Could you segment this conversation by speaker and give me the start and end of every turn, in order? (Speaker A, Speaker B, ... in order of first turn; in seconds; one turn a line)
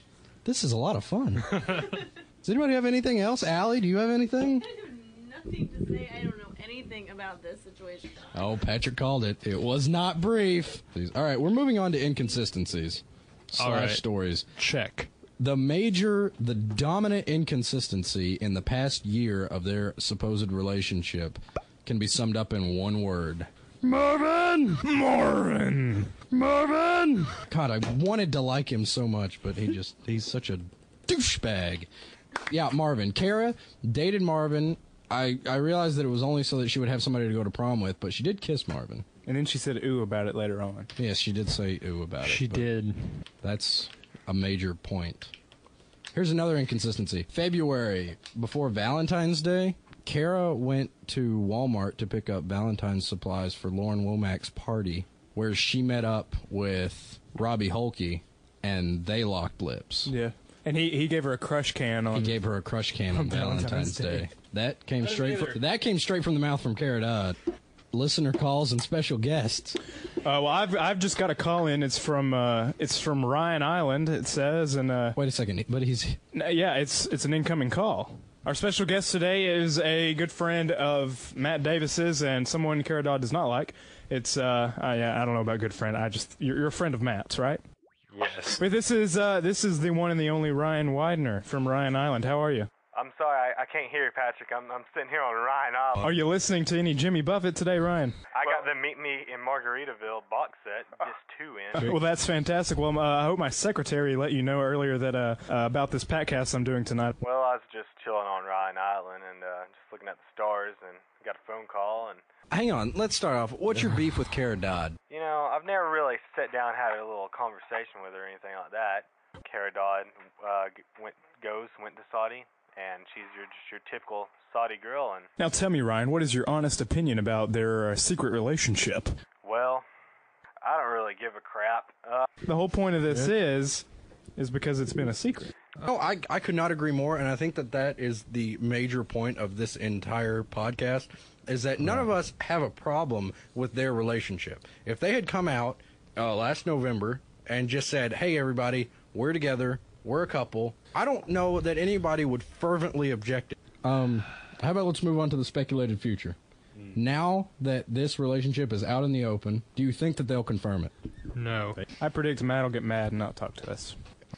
Speaker A: 0.5-1.8
Speaker B: 1.6-1.9
Speaker A: 2.4-4.7
Speaker C: 4.7-8.3
Speaker A: 8.3-14.4
Speaker B: 13.6-14.0
Speaker B: 14.6-15.1
Speaker A: 15.4-24.4
Speaker D: 23.9-26.8
Speaker A: 26.5-31.9
Speaker A: 32.5-39.0
Speaker D: 39.3-40.9
Speaker A: 41.0-42.7
Speaker B: 42.2-43.2
Speaker A: 43.4-45.3
Speaker A: 46.1-60.1
Speaker D: 60.1-62.4
Speaker A: 62.1-67.4
Speaker D: 63.1-64.3
Speaker B: 65.0-65.6
Speaker A: 67.9-69.8
Speaker D: 70.2-75.2
Speaker A: 75.2-76.2
Speaker D: 76.3-87.6
Speaker E: 88.1-88.6
Speaker D: 88.6-92.7
Speaker E: 92.9-96.2
Speaker D: 96.0-98.2
Speaker E: 98.3-102.0
Speaker D: 101.8-107.2
Speaker E: 107.2-112.2
Speaker A: 112.5-115.0
Speaker E: 115.1-125.3
Speaker D: 125.4-129.1
Speaker E: 129.4-129.9
Speaker E: 130.6-132.3
Speaker D: 132.4-135.5
Speaker A: 135.8-156.4
Speaker A: 156.9-160.9
Speaker B: 161.3-161.8
Speaker D: 161.9-164.0